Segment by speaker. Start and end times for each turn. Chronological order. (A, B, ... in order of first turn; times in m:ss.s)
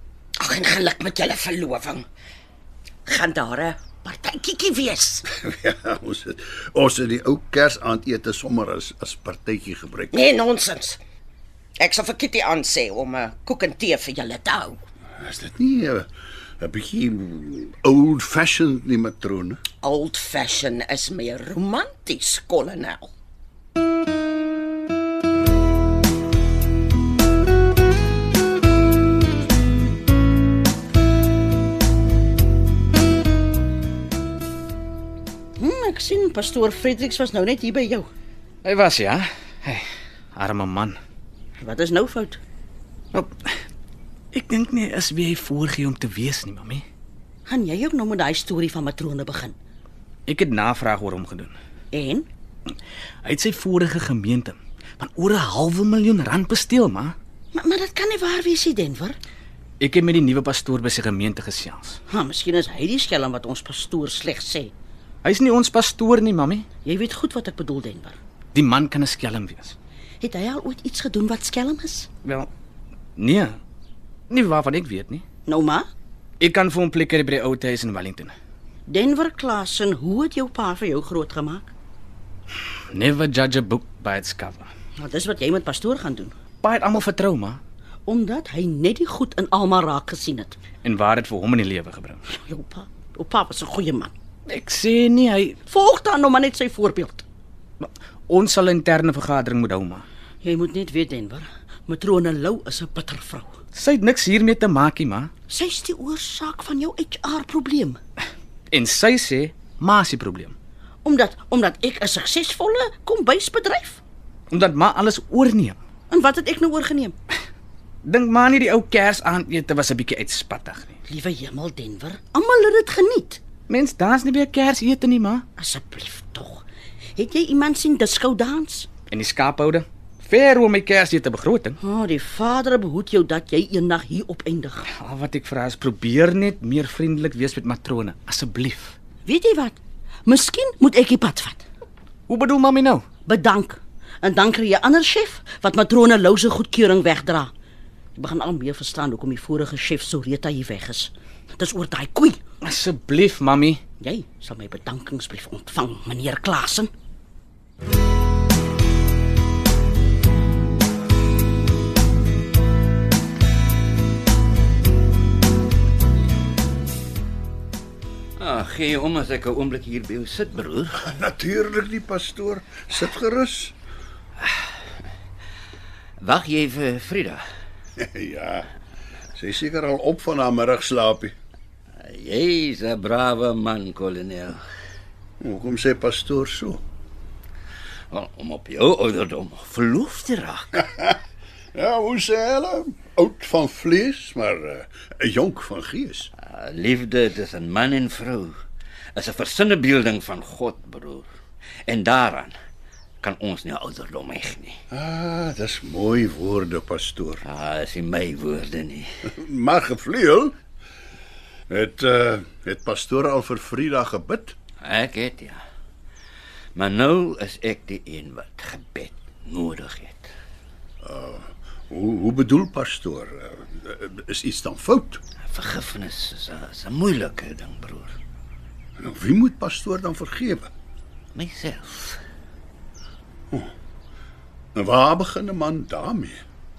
0:00.4-0:02.0 A
0:03.1-0:05.2 A
0:05.3-0:10.2 B
0:10.1-0:11.0 A
0:11.8-0:14.8 A
0:15.2-0:16.1 B
0:16.6-0:19.6 B
0:19.8-0:23.1 A
0:35.6-0:38.1 C
0:38.6-0:41.0 D
0:41.6-0:42.4 C
0:44.3-0:46.8 D
0:47.5-0:49.6 C
0:50.3-0:51.6 D
0:51.9-0:52.3 C
0:53.2-0:57.2 D
0:57.5-0:59.2 C
0:59.8-1:02.0 D
1:02.1-1:04.7 C
1:05.2-1:06.6 D
1:06.8-1:08.2 C
1:08.5-1:09.8 D
1:10.2-1:12.1 C
1:12.2-1:12.5 D
1:13.2-1:13.6 D
1:14.3-1:15.2 D
1:15.5-1:15.9 C
1:16.4-1:18.3 D
1:18.9-1:21.7 C
1:22.9-1:24.7 D
1:25.0-1:26.4 C
1:26.6-1:27.6 D
1:28.1-1:30.6 C
1:30.8-1:32.2 D
1:32.3-1:34.1 C
1:34.5-1:35.6 D
1:35.7-1:37.2 C
1:37.8-1:40.0 D
1:40.4-1:43.5 C
1:43.7-1:45.3 D
1:45.5-1:48.0 C
1:48.7-1:50.6 D
1:51.0-1:54.0 C
1:54.5-1:55.8 D
1:56.1-1:57.2 C
1:58.0-2:01.0 D
2:01.1-2:03.4 C
2:03.7-2:05.4 D
2:05.6-2:06.6 C
2:07.2-2:08.9 C
2:09.1-2:11.8 D
2:11.8-2:14.9 C
2:15.0-2:19.0 D
2:19.3-2:21.6 C
2:22.3-2:23.0 D
2:23.3-2:27.5 C
2:28.2-2:32.4 C
2:32.6-2:33.8 D
2:34.0-2:36.9 C
2:48.4-2:51.1 E
2:51.0-2:53.8 B
2:56.2-2:57.4 E
2:58.0-2:58.7 B
2:59.4-3:01.3 B
3:02.0-3:04.6 E
3:05.4-3:06.8 B
3:08.1-3:10.9 E
3:11.8-3:16.3 B
3:16.4-3:18.6 E
3:19.2-3:21.3 E
3:21.9-3:22.5 E
3:23.2-3:24.8 E
3:24.9-3:27.4 B
3:27.4-3:29.1 E
3:29.3-3:30.6 B
3:31.7-3:34.6 B
3:34.8-3:35.6 E
3:36.8-3:40.3 E
3:41.0-3:45.2 B
3:45.5-3:48.1 E
3:49.0-3:50.7 B
3:51.4-3:52.2 E
3:54.8-3:56.4 B